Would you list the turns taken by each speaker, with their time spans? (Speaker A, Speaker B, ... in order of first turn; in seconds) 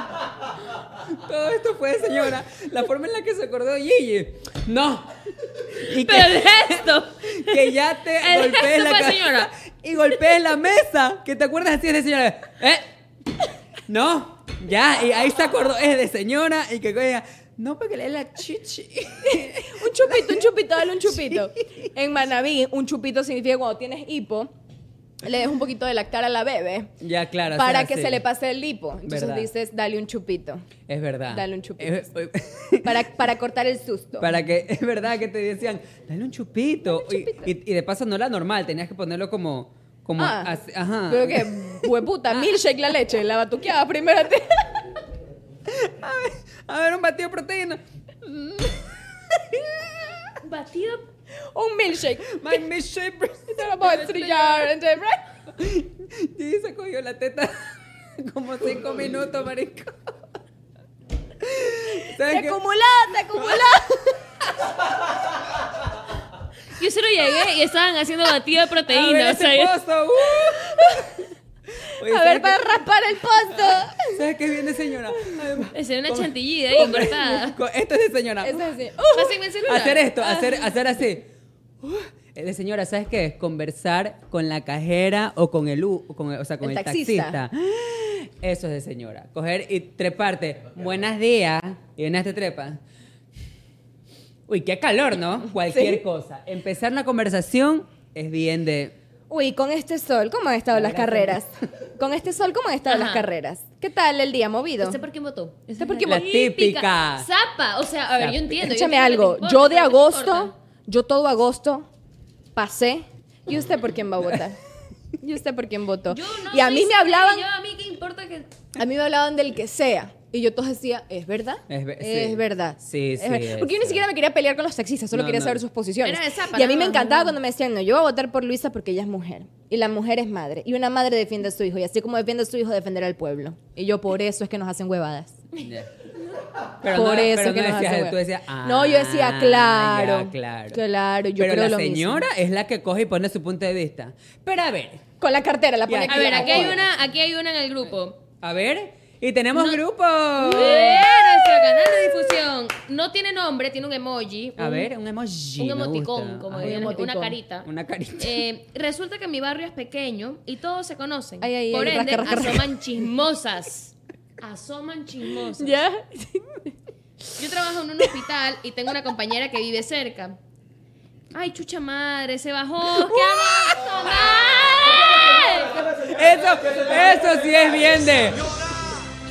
Speaker A: 1.1-5.1, 5.7-12.9, 13.9-21.5, 27.0-28.2, 29.0-29.5, 30.9-33.1, 34.2-41.9, 45.7-50.1, 52.3-53.6, 55.5-60.2, 61.4-62.6, 63.3-64.7, 68.9-71.2, 71.9-72.8, 73.5-78.6, 79.7-81.3, 81.8-92.8, 94.5-99.0, 100.7-101.4, 106.0-107.3, 108.2-108.6, 121.7-124.0, 125.1-125.6, 135.6-135.9, 136.8-140.8, 141.3-145.0, 145.8-146.9, 148.4-151.0, 154.6-157.0, 157.6-158.4, 172.9-175.2, 175.9-178.5
Speaker B: 6.0-9.5, 50.4-51.0, 53.8-54.7, 66.8-69.7, 75.7-77.6, 79.1-80.1, 102.9-103.3, 104.8-110.5, 116.1-118.5, 126.0-127.4, 146.1-148.2, 149.5-149.8, 150.5-154.9, 155.6-157.7, 158.2-165.8, 167.4-170.4, 171.3-175.8
Speaker C: 19.3-24.5, 25.2-26.9, 27.5-30.7, 31.3-32.0, 32.8-34.3, 36.9-37.5, 40.2-40.5, 41.0-44.7, 51.5-52.6, 53.5-55.2, 62.2-63.9, 70.7-71.0, 72.0-74.2, 78.4-79.7, 80.2-80.7, 86.6-87.4, 95.6-96.0, 99.3-105.0, 105.8-106.2, 108.6-111.9, 112.5-114.6, 115.2-117.4, 118.8-135.4, 136.9-142.2, 145.2-146.8, 150.4-151.0, 156.6-157.4, 161.4-163.1, 165.6-166.7